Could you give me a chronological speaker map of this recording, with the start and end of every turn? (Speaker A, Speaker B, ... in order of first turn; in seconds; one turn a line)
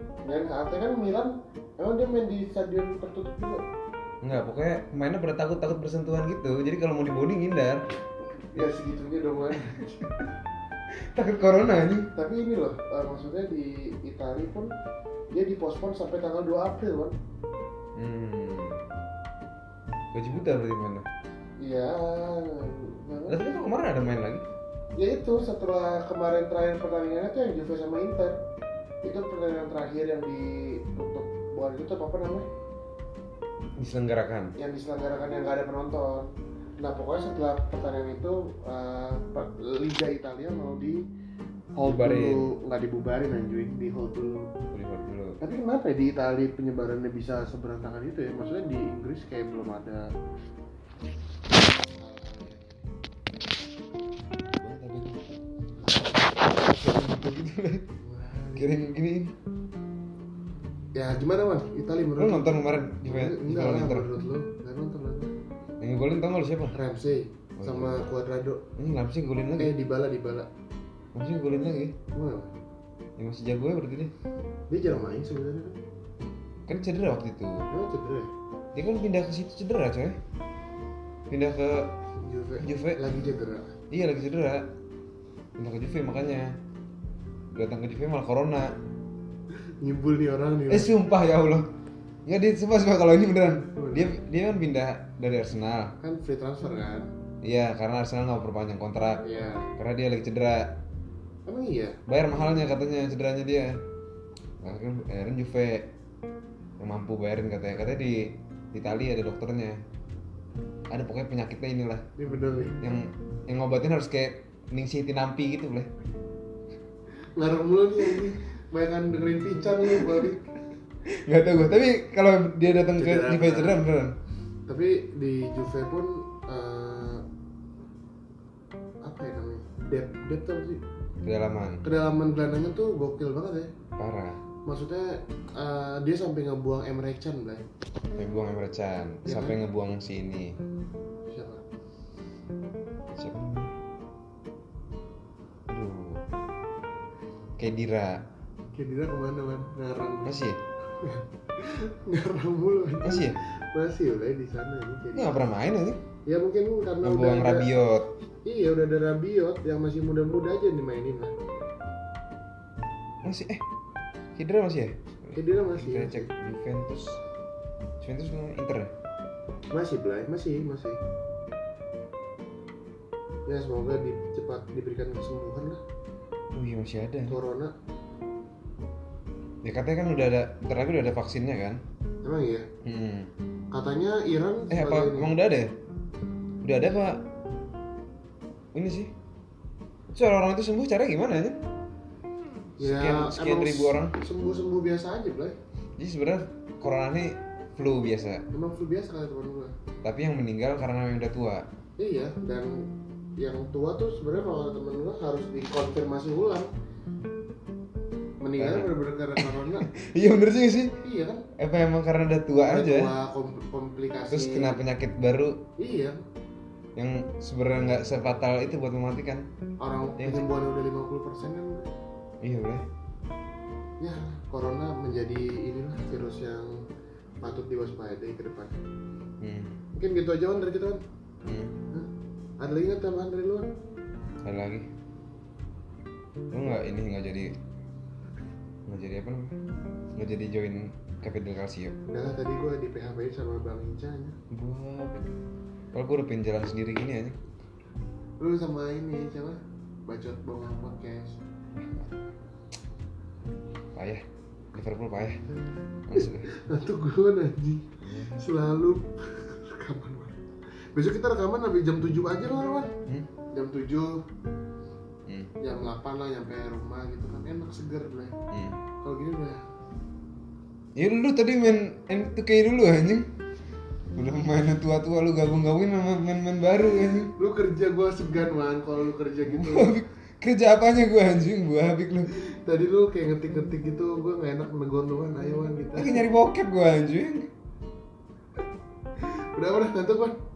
Speaker A: 0.2-3.6
Speaker B: 4.2-7.8
Speaker A: 8.5-10.1
Speaker B: 9.6-9.9
Speaker B: 10.9-12.1
Speaker A: 12.1-14.7
Speaker A: 15.3-17.1
Speaker B: 17.9-18.8
Speaker B: 20.1-21.1
Speaker A: 21.6-23.5
Speaker B: 23.3-24.4
Speaker A: 25.0-28.4
Speaker A: 29.0-32.5
Speaker B: 33.8-34.5
Speaker A: 34.6-41.0
Speaker A: 41.8-44.5
Speaker B: 41.8-42.4
Speaker B: 44.7-45.4
Speaker A: 45.4-50.0
Speaker A: 51.9-52.8
Speaker B: 54.4-55.4
Speaker B: 56.5-57.9
Speaker A: 58.0-58.7
Speaker B: 58.5-59.3
Speaker A: 60.9-65.3
Speaker B: 62.2-64.1
Speaker B: 65.8-66.8
Speaker A: 66.7-68.7
Speaker B: 67.6-68.0
Speaker B: 68.8-69.7
Speaker A: 69.6-70.5
Speaker B: 71.1-72.0
Speaker A: 72.1-72.5
Speaker B: 73.2-74.1
Speaker A: 74.7-75.8
Speaker B: 76.7-77.7
Speaker A: 77.7-78.3
Speaker B: 78.7-80.2
Speaker B: 81.3-81.9
Speaker A: 82.2-83.7
Speaker B: 82.6-83.0
Speaker B: 83.9-84.7
Speaker B: 85.6-86.5
Speaker B: 87.5-88.8
Speaker A: 89.5-90.9
Speaker B: 90.7-91.7
Speaker B: 92.2-96.0
Speaker A: 93.7-94.1
Speaker A: 96.0-97.1
Speaker B: 97.4-99.2
Speaker A: 99.2-99.7
Speaker B: 99.8-100.8
Speaker A: 101.5-102.0
Speaker B: 102.1-103.8
Speaker B: 104.6-105.9
Speaker B: 106.8-109.8
Speaker B: 110.9-112.1
Speaker A: 112.2-112.8
Speaker B: 112.8-115.9
Speaker A: 117.3-120.5
Speaker B: 121.0-124.2
Speaker A: 123.0-123.8
Speaker A: 124.7-127.2
Speaker A: 129.0-130.8
Speaker B: 131.2-131.8
Speaker A: 131.8-133.7
Speaker B: 134.0-134.4
Speaker A: 134.7-137.7
Speaker B: 138.1-140.6
Speaker A: 139.2-139.6
Speaker A: 141.3-141.6
Speaker B: 143.1-143.7
Speaker B: 145.7-146.2
Speaker B: 147.6-148.2
Speaker A: 148.7-150.3
Speaker B: 150.2-150.6
Speaker A: 151.0-155.4
Speaker B: 153.0-153.4
Speaker B: 155.2-156.0
Speaker A: 156.2-157.7
Speaker B: 157.0-158.1
Speaker A: 158.4-161.3
Speaker B: 163.2-163.6
Speaker B: 164.3-167.2
Speaker A: 165.3-166.3
Speaker B: 168.0-168.9
Speaker A: 169.7-171.0
Speaker A: 173.4-175.8
Speaker B: 176.5-177.4
Speaker A: 177.3-177.7
Speaker B: 179.6-181.8
Speaker A: 182.2-182.7
Speaker B: 182.8-183.3
Speaker A: 183.7-185.3
Speaker B: 184.7-185.7
Speaker B: 186.6-187.2
Speaker B: 188.7-189.1
Speaker B: 190.1-191.6
Speaker B: 192.8-194.1
Speaker A: 192.8-195.6
Speaker B: 196.0-198.4
Speaker A: 198.5-199.7
Speaker B: 200.0-201.7
Speaker A: 202.0-202.9
Speaker A: 203.4-206.7
Speaker A: 208.4-209.8
Speaker B: 208.6-210.9
Speaker A: 211.0-211.4
Speaker B: 211.6-213.1
Speaker A: 212.7-214.8
Speaker B: 214.3-215.6
Speaker A: 215.8-216.2
Speaker B: 216.9-219.4
Speaker A: 219.8-221.9
Speaker B: 220.2-220.5
Speaker B: 222.4-222.8
Speaker A: 224.0-226.8
Speaker A: 227.4-228.8
Speaker B: 229.4-229.7
Speaker A: 229.9-231.0
Speaker B: 231.4-231.8
Speaker A: 232.6-233.7
Speaker B: 234.4-234.9
Speaker B: 236.5-237.5
Speaker B: 238.9-239.6
Speaker B: 240.2-242.0
Speaker A: 242.1-244.3
Speaker B: 244.5-245.3
Speaker B: 245.9-247.4
Speaker A: 248.4-251.4
Speaker B: 251.7-252.1
Speaker B: 253.9-254.2
Speaker B: 254.7-255.4
Speaker B: 256.1-256.4
Speaker A: 256.1-260.4
Speaker B: 258.0-258.4
Speaker A: 260.9-262.9
Speaker A: 263.5-264.2
Speaker B: 265.2-265.5
Speaker A: 265.6-268.3
Speaker B: 268.5-268.8
Speaker A: 269.0-269.6
Speaker B: 270.9-273.3
Speaker B: 274.1-277.3
Speaker A: 277.4-279.9
Speaker B: 279.5-282.3
Speaker A: 282.3-286.2
Speaker B: 285.9-287.5
Speaker A: 289.2-290.4